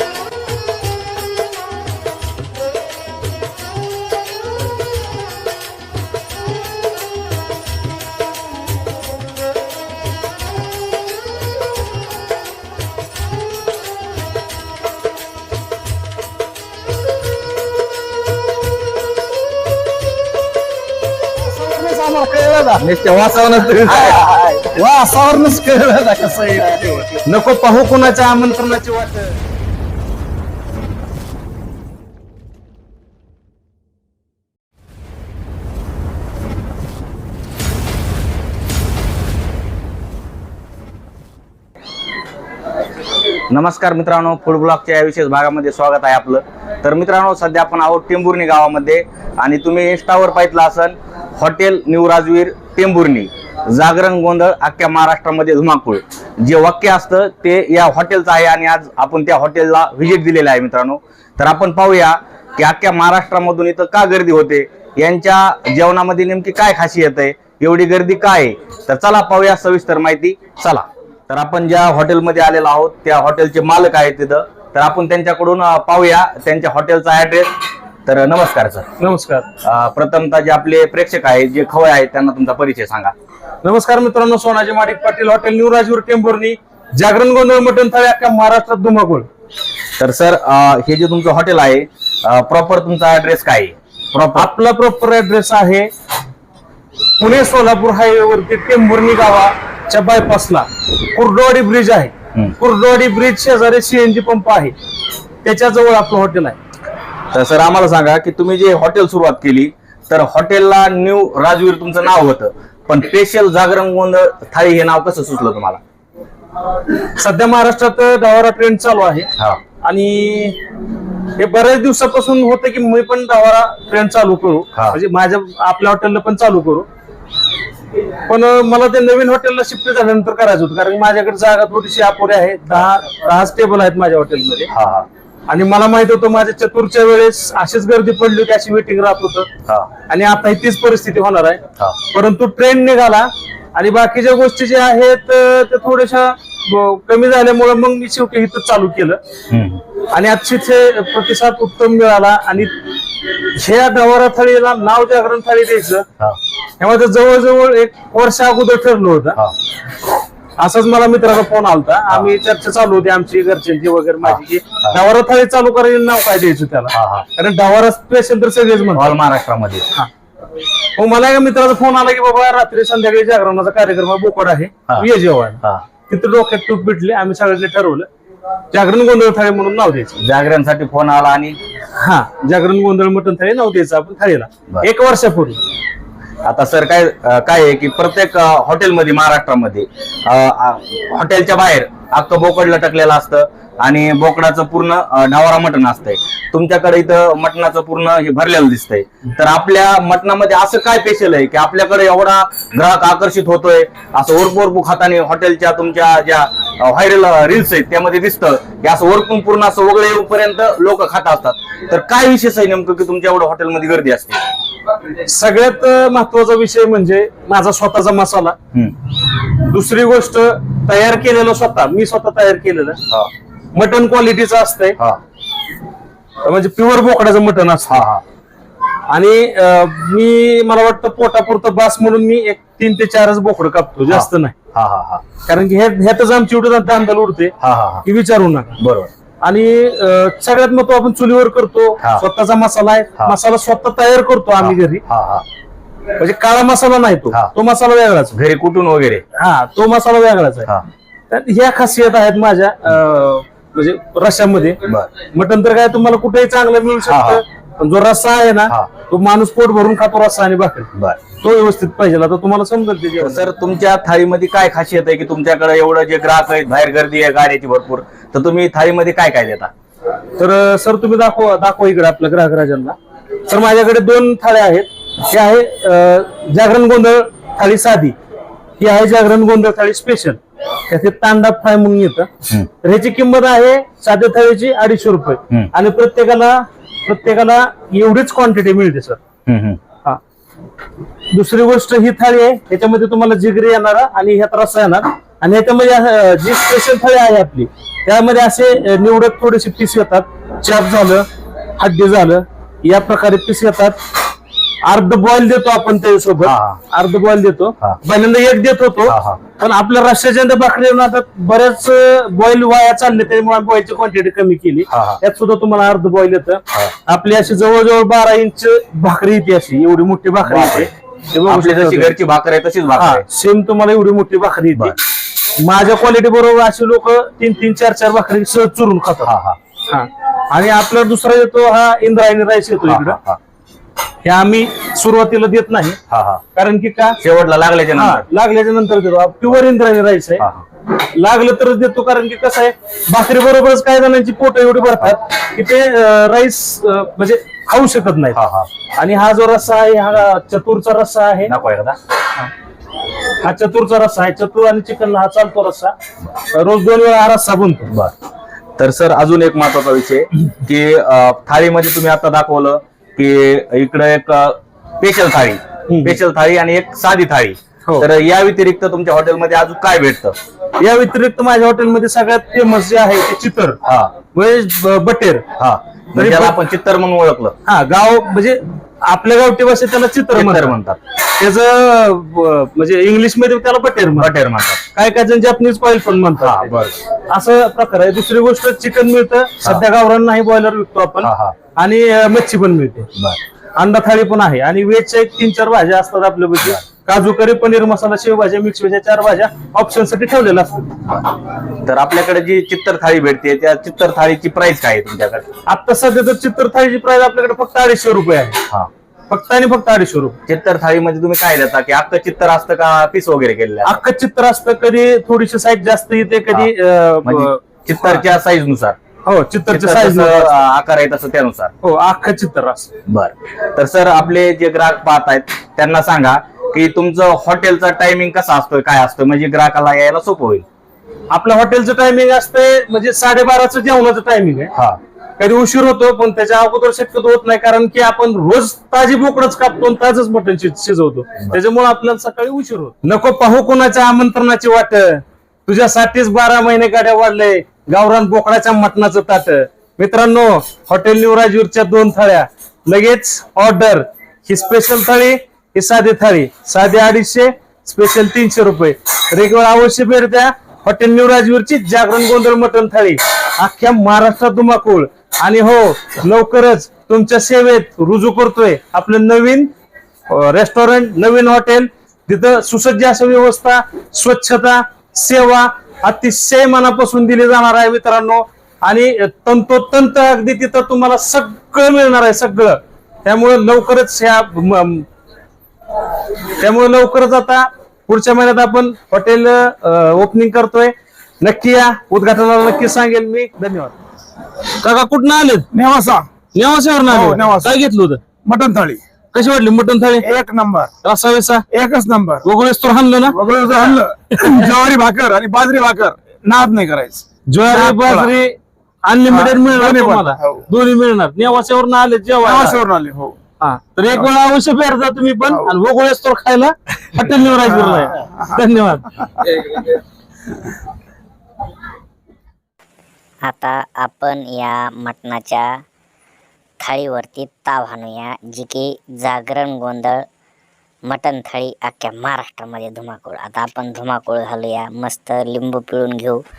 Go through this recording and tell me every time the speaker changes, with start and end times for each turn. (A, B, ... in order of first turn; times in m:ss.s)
0:21.4-0:22.8 A
0:22.8-0:24.7 B
0:24.7-0:27.1 A
0:27.3-0:29.4 C
0:43.5-1:17.5 B
1:18.0-1:18.9 B
1:19.0-1:19.5 C
1:19.6-1:23.1 B
1:23.6-1:29.3 C
1:30.0-1:34.5 B
1:34.3-1:35.9 C
1:37.2-1:44.7 C
1:45.4-1:46.6 C
1:47.3-1:55.8 B
1:57.2-1:59.3 C
1:59.8-2:00.6 C
2:01.4-2:06.9 C
2:08.2-2:14.7 C
2:14.7-2:15.1 B
2:15.5-2:19.5 C
2:20.1-2:29.2 C
2:29.5-2:29.8 B
2:30.1-2:36.1 C
2:36.8-2:39.4 C
2:40.6-2:49.1 C
2:44.2-2:44.9 B
2:46.9-2:47.2 B
2:48.9-2:49.8 B
2:51.0-2:58.1 C
2:58.7-3:00.1 C
3:00.2-3:01.6 B
3:02.0-3:05.6 C
3:06.4-3:34.4 B
3:35.2-3:38.5 C
3:39.4-3:43.0 C
3:43.7-3:45.0 C
3:46.4-3:48.0 C
3:47.9-3:48.2 B
3:49.1-3:54.6 C
3:54.1-3:55.2 B
3:55.4-3:58.8 C
3:57.6-3:58.0 B
3:58.8-3:59.1 B
3:59.4-4:05.0 C
4:04.6-4:05.4 B
4:06.2-4:08.3 C
4:08.3-4:09.2 B
4:09.3-4:10.7 C
4:11.3-4:14.8 C
4:15.3-4:20.9 C
4:17.1-4:17.4 B
4:21.4-4:23.4 C
4:23.2-4:29.7 B
4:30.4-4:33.0 C
4:33.5-4:38.1 C
4:38.8-4:42.3 C
4:42.8-4:49.2 C
4:49.5-4:49.8 B
4:51.3-5:01.2 C
5:01.8-5:04.0 C
5:04.8-5:22.1 C
5:06.4-5:06.8 B
5:09.1-5:09.4 B
5:14.9-5:15.2 B
5:20.4-5:20.9 B
5:21.5-5:23.2 B
5:23.0-5:25.0 C
5:25.6-5:29.3 C
5:29.2-5:29.6 B
5:29.9-5:33.2 C
5:32.9-5:33.4 B
5:34.2-5:36.0 C
5:36.1-5:36.4 B
5:36.5-5:37.2 C
5:37.2-5:38.2 B
5:37.9-5:48.4 C
5:48.3-5:48.7 B
5:49.0-5:51.5 C
5:51.5-5:52.0 B
5:53.4-5:55.9 C
5:56.5-5:57.9 C
5:58.8-6:10.4 B
6:05.9-6:06.2 C
6:10.8-6:13.8 C
6:13.8-6:14.1 B
6:14.3-6:15.4 C
6:15.6-6:17.5 B
6:16.2-6:16.6 C
6:17.6-6:20.8 C
6:20.3-6:21.0 B
6:21.3-6:24.3 C
6:24.2-6:24.8 B
6:24.9-6:26.7 C
6:26.4-6:27.0 B
6:27.3-6:33.1 C
6:31.2-6:31.5 B
6:33.8-6:40.9 C
6:41.8-6:45.4 B
6:45.6-6:48.6 C
6:49.3-6:50.4 C
6:50.5-6:54.0 B
6:53.8-6:58.2 C
6:57.2-6:59.0 B
6:59.2-7:00.6 C
6:59.7-7:01.7 B
7:01.8-7:02.9 C
7:03.1-7:10.6 B
7:11.3-7:14.7 C
7:15.4-7:49.7 C
7:50.3-8:05.0 C
8:06.6-8:13.9 C
8:14.8-8:15.7 C
8:15.7-8:16.2 A
8:16.5-8:18.2 C
8:17.1-8:17.8 A
8:18.4-8:19.0 A
8:19.3-8:20.3 C
8:20.2-8:20.9 A
8:21.0-8:21.6 C
8:21.7-8:22.4 A
8:22.4-8:23.4 C
8:23.3-8:28.3 A
8:27.5-8:32.8 C
8:29.3-8:30.5 A
8:32.5-8:33.3 A
8:33.6-8:39.8 C
8:43.4-8:45.7 D
8:46.8-8:50.2 D
8:51.1-8:56.4 D